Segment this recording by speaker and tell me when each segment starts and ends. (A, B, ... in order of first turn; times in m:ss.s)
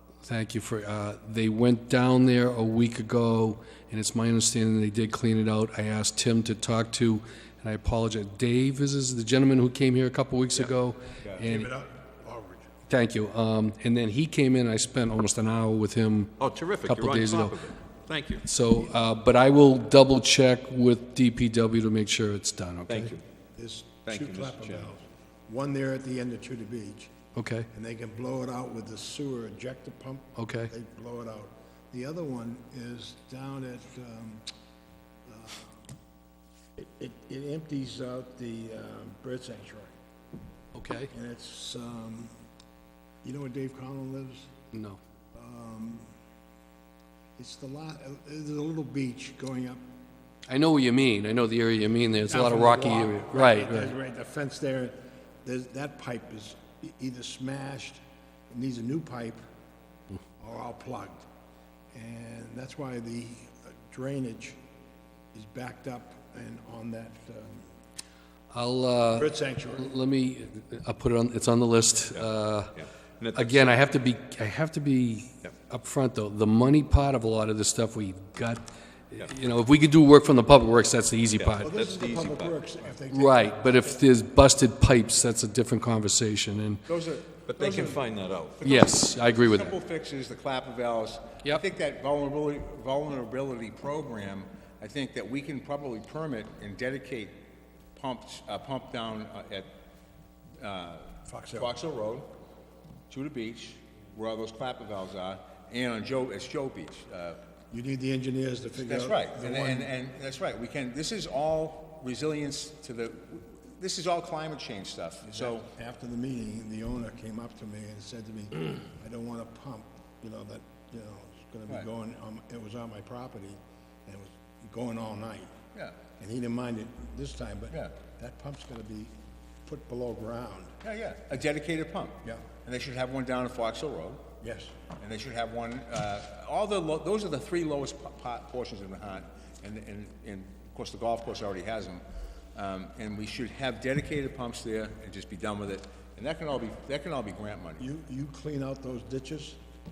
0:00.2-0:11.7 A
0:11.4-0:12.7 B
0:12.9-0:17.7 A
0:16.4-0:18.5 C
0:18.4-0:23.1 A
0:22.9-0:23.2 C
0:23.6-0:27.1 B
0:24.1-0:24.9 C
0:27.4-0:27.7 A
0:27.7-0:34.4 B
0:30.4-0:30.7 A
0:35.3-0:35.9 B
0:36.8-0:39.9 B
0:40.8-0:41.1 A
0:41.1-0:42.3 B
0:43.2-0:44.5 B
0:44.7-0:45.0 A
0:45.3-0:46.1 B
0:47.4-0:49.8 B
0:50.5-0:53.9 A
0:52.3-0:59.4 B
1:00.4-1:01.2 B
1:01.9-1:04.6 B
1:05.3-1:07.7 B
1:08.5-1:12.7 A
1:09.2-1:09.9 B
1:12.1-1:13.9 C
1:13.3-1:21.7 A
1:21.4-1:22.6 C
1:21.6-1:24.0 B
1:23.1-1:26.8 A
1:26.9-1:28.0 D
1:27.5-1:28.7 C
1:28.6-1:37.4 D
1:28.6-1:29.8 A
1:38.0-1:39.7 D
1:40.6-1:42.3 D
1:41.3-1:41.7 B
1:43.1-1:47.4 D
1:47.7-1:49.9 B
1:48.8-1:55.7 D
1:55.2-2:05.5 B
2:05.7-2:06.0 D
2:06.2-2:09.1 B
2:09.6-2:10.8 B
2:10.8-2:14.2 D
2:14.4-2:14.8 B
2:15.0-2:27.9 D
2:27.8-2:29.6 B